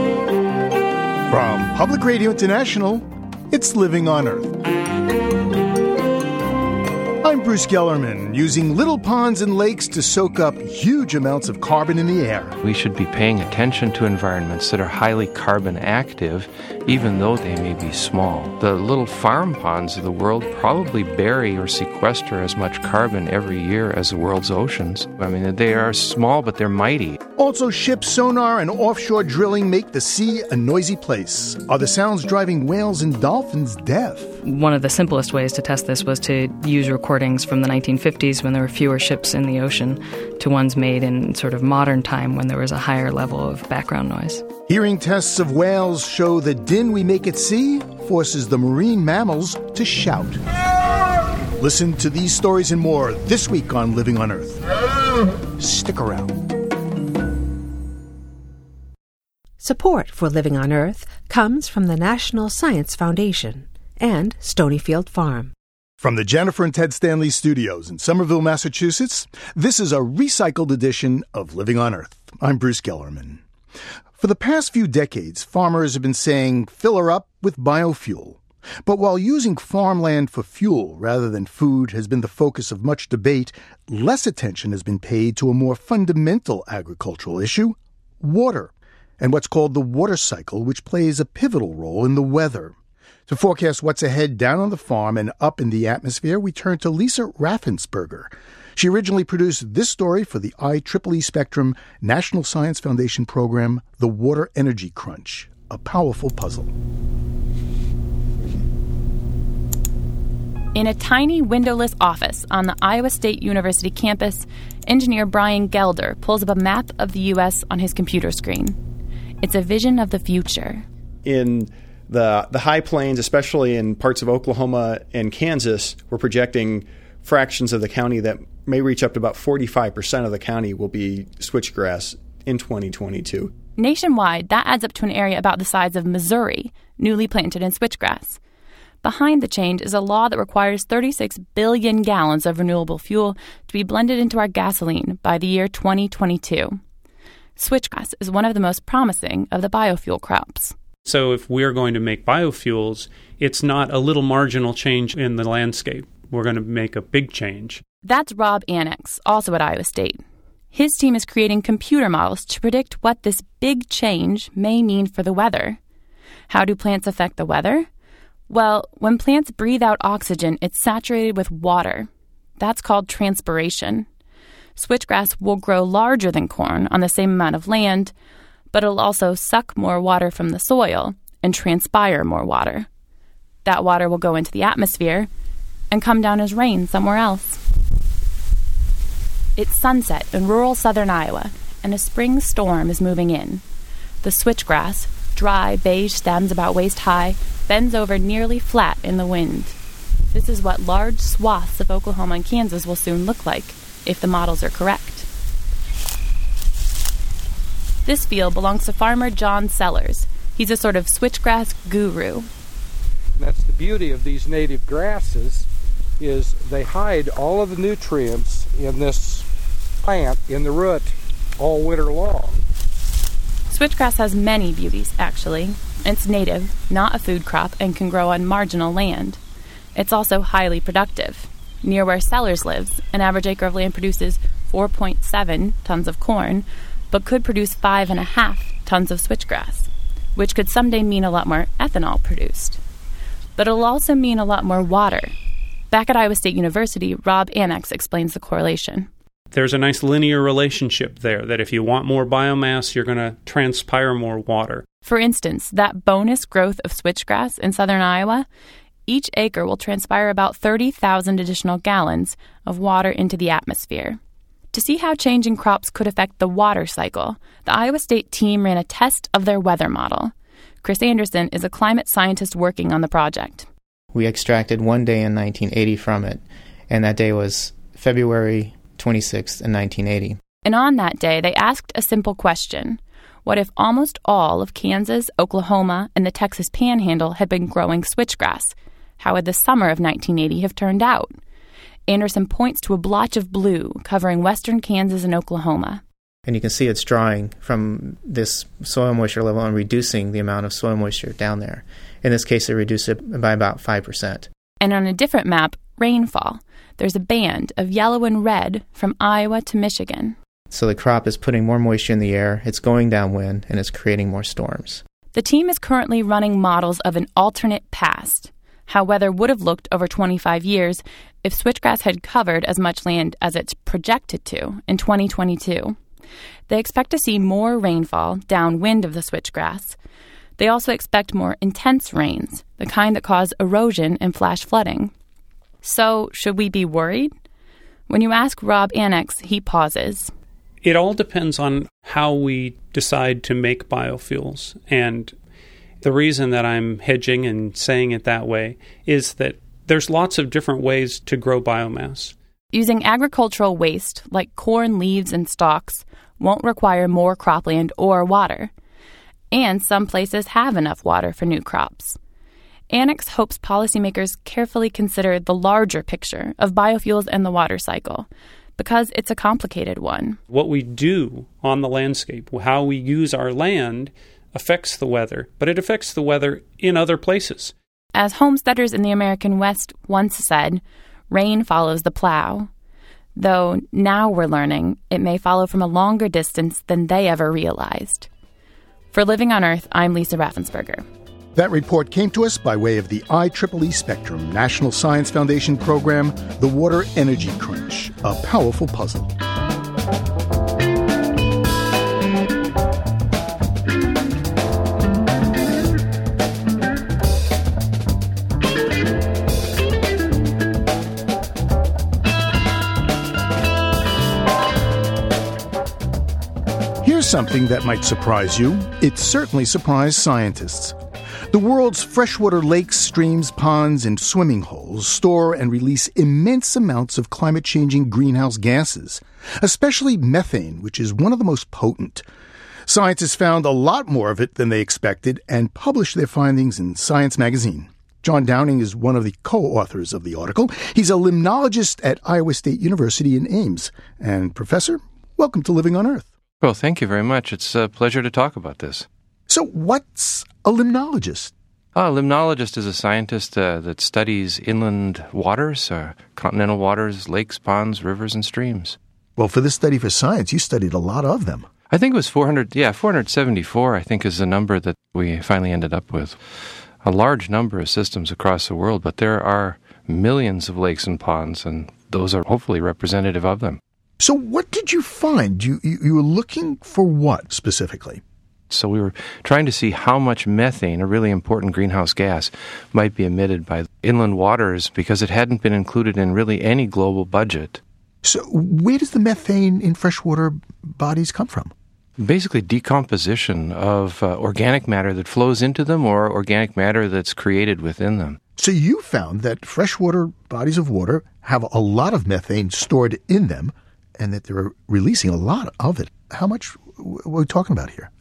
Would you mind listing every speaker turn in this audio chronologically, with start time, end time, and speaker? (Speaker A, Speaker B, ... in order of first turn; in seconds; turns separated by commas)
Speaker A: 1.3-4.6, Speaker A: 7.2-12.6, Speaker B: 12.6-27.2, Speaker A: 27.4-34.4, Speaker C: 34.4-44.5, Speaker A: 44.7-50.4, Speaker A: 51.6-54.6, Speaker A: 55.6-56.4, Speaker D: 59.6-65.5, Speaker A: 66.0-73.4, Speaker A: 74.2-92.8, Speaker A: 93.3-106.7, Speaker E: 110.7-118.8, Speaker E: 119.4-120.9, Speaker F: 121.2-133.5, Speaker E: 133.8-138.4, Speaker E: 139.0-146.8, Speaker E: 147.6-150.8, Speaker G: 151.1-157.8, Speaker E: 158.0-165.8, Speaker E: 166.5-167.9, Speaker E: 168.5-174.1, Speaker E: 174.8-178.1, Speaker E: 178.7-182.9, Speaker E: 183.7-185.3, Speaker E: 185.9-187.6, Speaker E: 189.6-193.6, Speaker E: 194.2-199.8, Speaker E: 200.3-205.3, Speaker E: 208.1-212.5, Speaker H: 213.4-215.7, Speaker H: 216.2-219.4, Speaker H: 220.0-222.6, Speaker E: 223.7-229.4, Speaker E: 229.9-242.8, Speaker E: 243.6-245.3, Speaker E: 245.9-249.1, Speaker G: 249.5-254.8, Speaker E: 255.0-258.5, Speaker E: 259.1-264.2, Speaker E: 264.7-273.7, Speaker I: 274.1-280.4, Speaker E: 280.6-291.4, Speaker E: 292.1-296.0, Speaker I: 296.5-304.5, Speaker E: 304.8-310.4, Speaker I: 310.7-315.0, Speaker E: 315.3-326.0, Speaker E: 326.7-330.0, Speaker E: 330.6-335.1, Speaker E: 335.8-337.3, Speaker E: 338.1-340.3, Speaker G: 340.8-345.4, Speaker G: 346.0-352.4, Speaker E: 352.7-358.7, Speaker E: 359.5-362.2, Speaker E: 362.9-370.4, Speaker G: 370.5-377.7, Speaker E: 378.1-382.7, Speaker E: 383.4-388.3, Speaker E: 389.1-391.1, Speaker A: 391.6-399.3, Speaker A: 417.0-421.0, Speaker A: 421.5-432.2, Speaker A: 432.9-446.3, Speaker B: 446.6-449.1, Speaker A: 449.5-451.5, Speaker B: 451.9-459.0, Speaker A: 459.4-461.7, Speaker B: 461.9-466.4, Speaker B: 467.0-473.8, Speaker A: 474.2-478.2, Speaker B: 478.7-487.8, Speaker A: 488.2-491.7, Speaker B: 492.2-498.4, Speaker A: 498.6-508.1